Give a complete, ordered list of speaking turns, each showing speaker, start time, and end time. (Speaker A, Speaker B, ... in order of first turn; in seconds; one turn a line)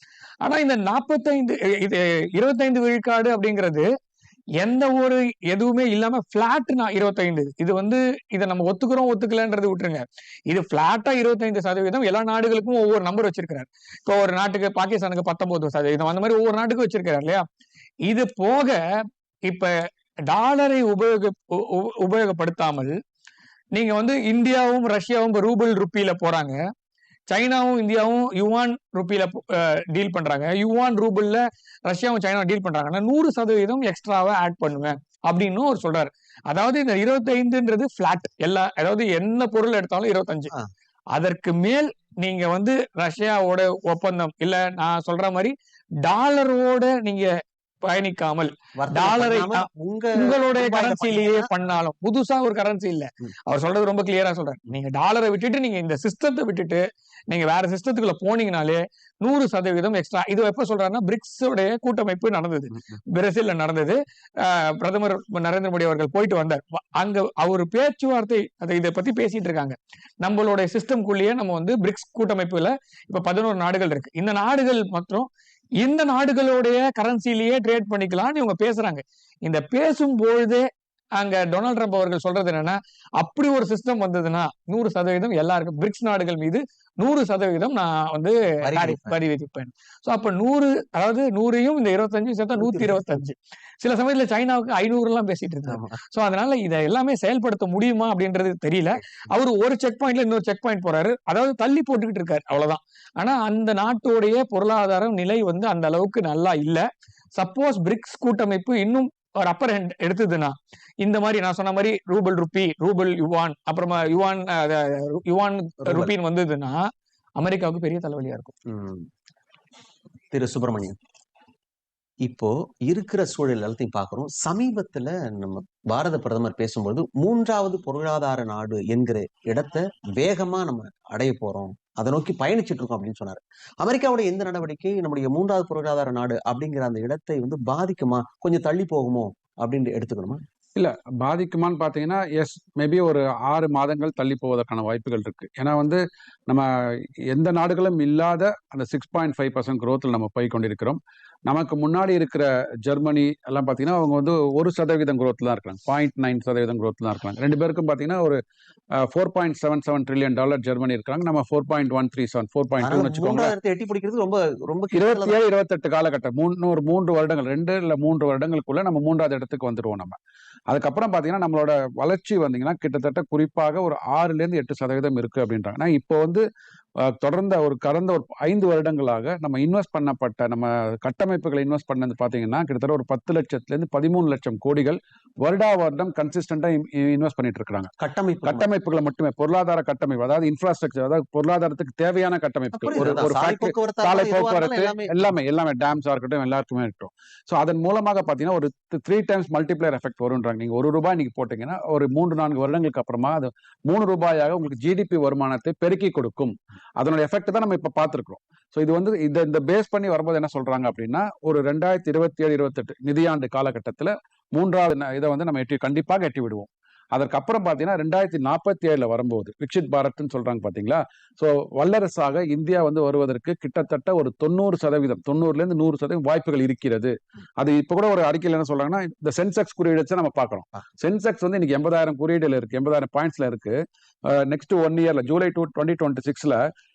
Speaker A: 0.4-3.9
Speaker A: 4.6-17.5
Speaker A: 18.1-18.8
Speaker A: 19.5-23.0
Speaker A: 23.7-26.6
Speaker A: 27.3-40.5
Speaker A: 41.1-106.9
Speaker B: 48.8-51.5
Speaker B: 88.6-89.2
Speaker B: 92.6-93.1
Speaker B: 95.7-96.0
Speaker A: 107.4-116.9
Speaker B: 115.8-116.1
Speaker A: 117.4-118.6
Speaker B: 118.7-119.1
Speaker B: 120.3-121.0
Speaker B: 122.2-140.4
Speaker C: 140.8-158.4
Speaker C: 159.0-163.5
Speaker B: 162.8-165.4
Speaker C: 164.9-170.2
Speaker C: 170.7-176.4
Speaker C: 177.0-187.9
Speaker B: 188.0-188.7
Speaker C: 188.5-236.6
Speaker B: 192.8-195.1